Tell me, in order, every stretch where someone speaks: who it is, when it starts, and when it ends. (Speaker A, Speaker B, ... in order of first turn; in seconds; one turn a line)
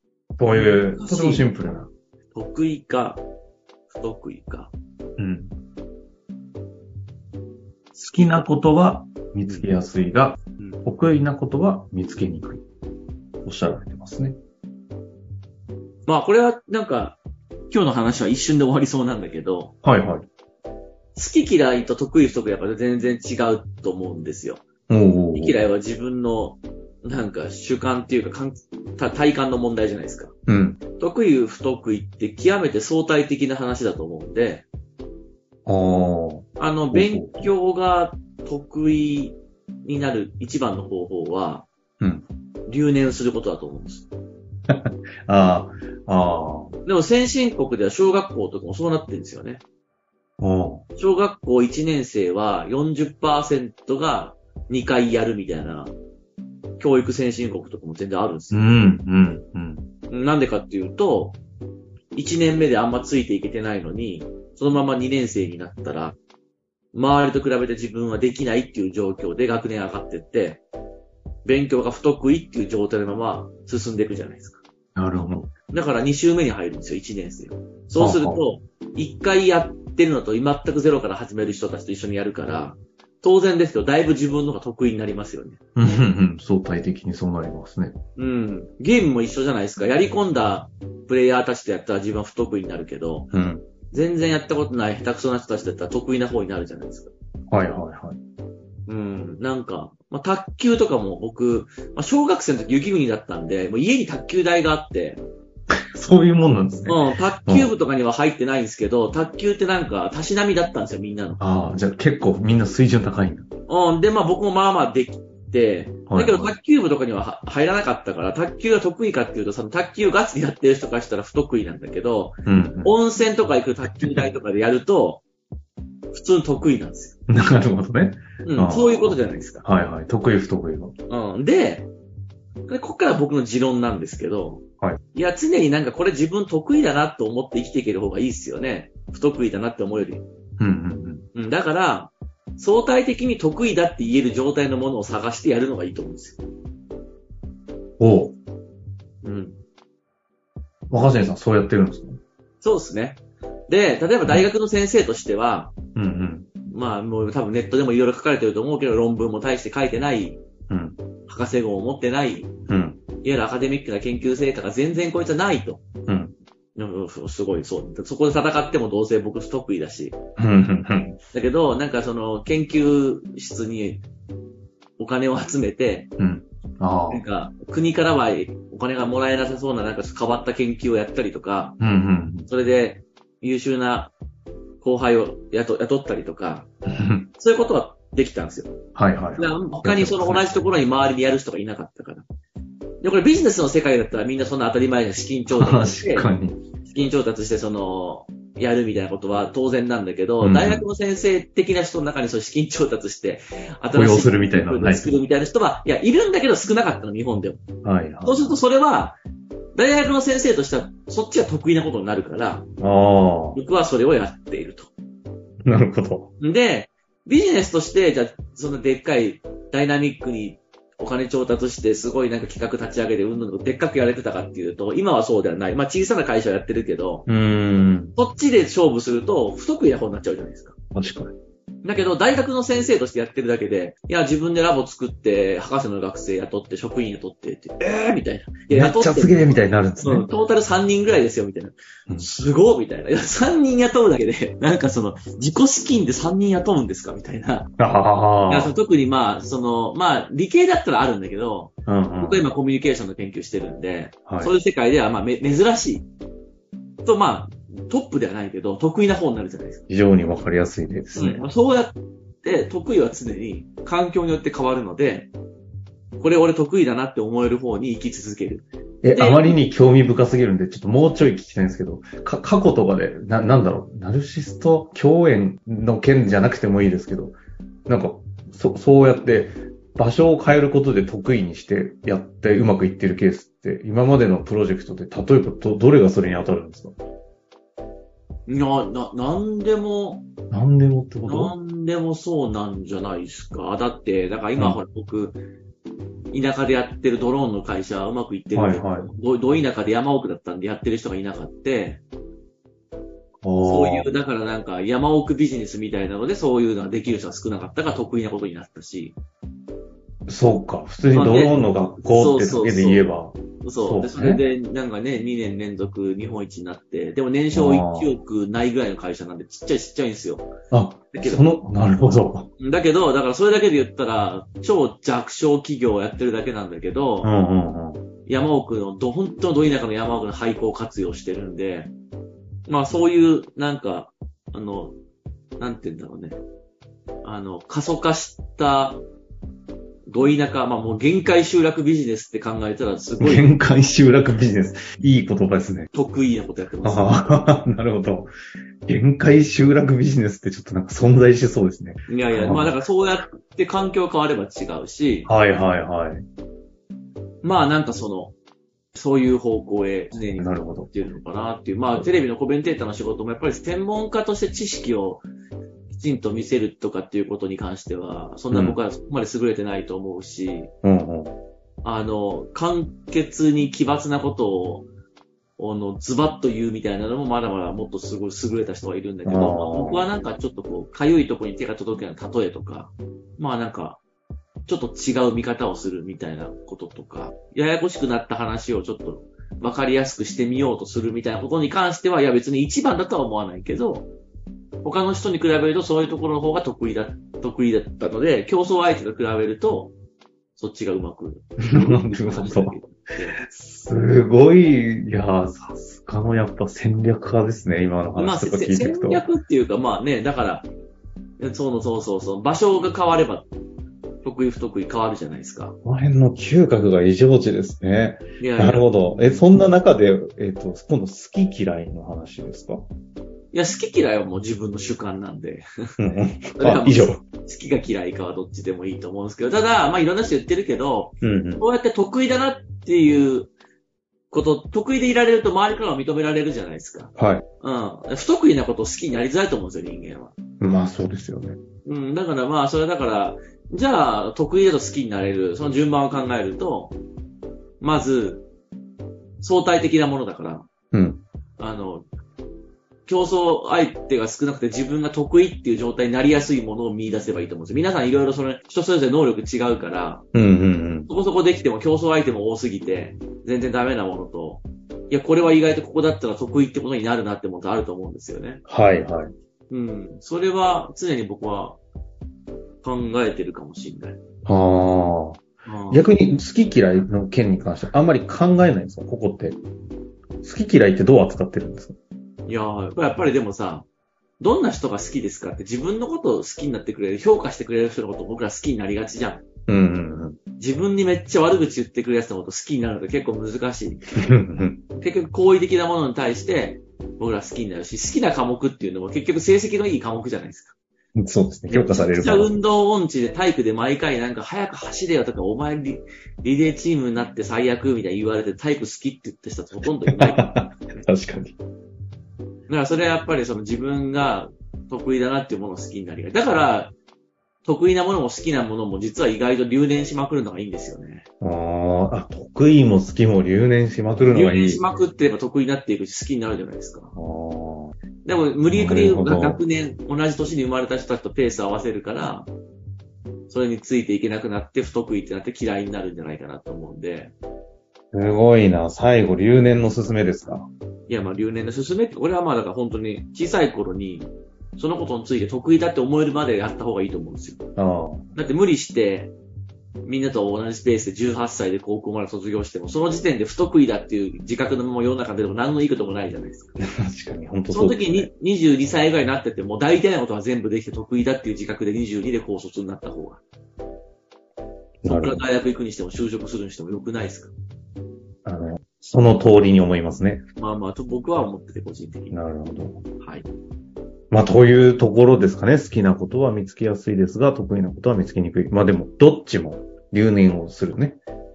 Speaker A: 0.4-1.9
Speaker B: 0.5-1.5
Speaker B: 2.3-3.2
Speaker B: 3.9-4.7
Speaker A: 5.2-5.5
Speaker A: 8.0-12.6
Speaker B: 8.1-8.4
Speaker A: 13.4-14.4
Speaker B: 16.1-19.7
Speaker A: 19.8-20.3
Speaker B: 21.1-24.6
Speaker A: 24.9-25.6
Speaker B: 25.3-30.3
Speaker A: 30.5-30.8
Speaker B: 31.0-34.6
Speaker A: 35.6-37.5
Speaker B: 36.6-41.7
Speaker B: 42.7-44.1
Speaker A: 44.7-46.8
Speaker B: 46.8-49.6
Speaker A: 50.4-50.8
Speaker B: 51.0-55.9
Speaker B: 56.8-58.7
Speaker A: 58.5-59.9
Speaker B: 60.1-61.4
Speaker B: 62.1-66.2
Speaker B: 66.9-70.6
Speaker B: 71.4-74.6
Speaker A: 75.0-75.5
Speaker B: 75.7-85.7
Speaker A: 78.0-78.4
Speaker A: 85.8-88.0
Speaker B: 88.2-93.3
Speaker A: 93.3-93.6
Speaker B: 93.9-97.1
Speaker A: 97.5-98.2
Speaker B: 98.9-105.2
Speaker A: 105.9-107.7
Speaker B: 106.8-111.4
Speaker A: 111.4-113.5
Speaker B: 113.7-125.2
Speaker A: 116.1-116.5
Speaker A: 122.5-122.9
Speaker B: 126.1-127.1
Speaker A: 127.3-130.9
Speaker B: 128.4-129.6
Speaker B: 131.1-131.9
Speaker B: 132.7-140.2
Speaker A: 140.6-141.2
Speaker B: 141.3-146.4
Speaker A: 148.0-148.4
Speaker B: 149.2-149.6
Speaker A: 150.9-152.2
Speaker B: 152.6-155.7
Speaker A: 155.9-156.5
Speaker B: 156.7-160.4
Speaker A: 160.7-161.0
Speaker B: 161.3-162.5
Speaker A: 162.7-163.0
Speaker B: 163.2-165.8
Speaker A: 166.1-166.3
Speaker B: 166.8-170.2
Speaker A: 170.4-171.2
Speaker B: 171.3-174.0
Speaker B: 175.0-176.1
Speaker A: 176.2-177.2
Speaker B: 177.1-181.8
Speaker A: 181.8-182.5
Speaker B: 182.5-184.1
Speaker B: 184.8-186.7
Speaker A: 186.9-187.3
Speaker B: 187.4-188.8
Speaker A: 188.9-190.7
Speaker B: 189.4-192.2
Speaker B: 193.0-196.3
Speaker A: 195.5-196.6
Speaker B: 196.8-207.6
Speaker A: 200.4-200.9
Speaker A: 203.9-205.2
Speaker A: 207.8-208.5
Speaker B: 208.2-209.2
Speaker B: 209.7-212.7
Speaker A: 212.8-213.6
Speaker B: 213.5-214.9
Speaker A: 215.7-216.3
Speaker B: 216.4-227.3
Speaker A: 227.3-228.1
Speaker B: 228.2-230.7
Speaker A: 230.9-231.3
Speaker B: 231.8-239.4
Speaker A: 238.7-240.2
Speaker B: 240.0-247.7
Speaker A: 247.8-248.7
Speaker B: 248.4-256.1
Speaker A: 251.9-252.4
Speaker A: 254.3-254.5
Speaker B: 257.0-259.8
Speaker A: 259.9-261.5
Speaker B: 261.1-265.3
Speaker B: 266.2-269.6
Speaker A: 269.0-277.3
Speaker A: 277.9-287.0
Speaker B: 288.5-290.2
Speaker A: 290.5-291.5
Speaker B: 291.2-295.4
Speaker B: 296.3-302.0
Speaker A: 298.5-299.1
Speaker A: 303.4-304.1
Speaker B: 303.6-309.2
Speaker A: 310.3-314.4
Speaker B: 311.1-320.5
Speaker A: 317.5-318.2
Speaker A: 320.7-322.5
Speaker B: 321.1-321.4
Speaker B: 322.6-327.3
Speaker A: 327.2-328.0
Speaker B: 328.2-331.9
Speaker B: 332.7-334.9
Speaker B: 335.6-336.4
Speaker B: 337.2-339.0
Speaker B: 340.1-343.5
Speaker A: 343.2-345.9
Speaker B: 345.9-347.4
Speaker A: 346.8-348.3
Speaker A: 348.9-352.8
Speaker B: 352.1-355.3
Speaker A: 355.2-356.2
Speaker B: 357.4-358.3
Speaker B: 358.9-365.2
Speaker A: 360.4-360.9
Speaker B: 365.9-370.7
Speaker A: 368.5-368.8
Speaker A: 370.8-371.4
Speaker B: 371.8-374.9
Speaker B: 375.6-384.0
Speaker A: 379.2-380.1
Speaker B: 384.7-394.1
Speaker B: 394.8-399.9
Speaker B: 400.6-403.4
Speaker A: 401.7-402.7
Speaker A: 403.5-409.2
Speaker B: 408.1-410.7
Speaker B: 411.4-413.5
Speaker B: 414.2-415.8
Speaker A: 415.8-422.9
Speaker B: 418.4-418.8
Speaker B: 423.5-426.0
Speaker A: 426.0-427.2
Speaker B: 426.6-433.5
Speaker A: 431.2-431.6
Speaker B: 434.3-440.3
Speaker A: 437.2-437.4
Speaker A: 440.6-441.6
Speaker B: 441.8-446.9
Speaker B: 447.8-448.4
Speaker B: 449.4-450.7
Speaker A: 450.9-451.2
Speaker B: 451.6-452.1
Speaker B: 453.1-460.2
Speaker A: 460.3-461.1
Speaker B: 461.1-468.6
Speaker A: 468.7-469.3
Speaker B: 469.7-471.8
Speaker B: 472.8-474.2
Speaker A: 474.4-479.6
Speaker B: 475.6-476.1
Speaker A: 480.4-481.9
Speaker B: 482.5-483.9
Speaker B: 484.4-489.4
Speaker A: 489.7-490.4
Speaker B: 490.6-494.0
Speaker A: 494.2-494.8
Speaker B: 494.9-500.7
Speaker A: 501.2-502.6
Speaker B: 501.7-510.4
Speaker A: 510.1-511.5
Speaker B: 512.7-516.9
Speaker B: 517.6-521.2
Speaker A: 521.4-524.8
Speaker B: 524.3-527.1
Speaker A: 527.1-528.0
Speaker B: 528.2-532.5
Speaker A: 528.7-529.6
Speaker B: 533.5-537.3
Speaker A: 538.1-540.7
Speaker B: 541.1-547.6
Speaker A: 547.8-548.2
Speaker B: 548.3-549.3
Speaker B: 550.0-556.7
Speaker A: 556.8-558.3
Speaker B: 557.7-563.4
Speaker A: 565.0-565.4
Speaker B: 565.0-567.5
Speaker A: 568.4-570.4
Speaker B: 570.6-572.3
Speaker A: 572.3-573.0
Speaker B: 573.2-573.5
Speaker A: 574.3-581.2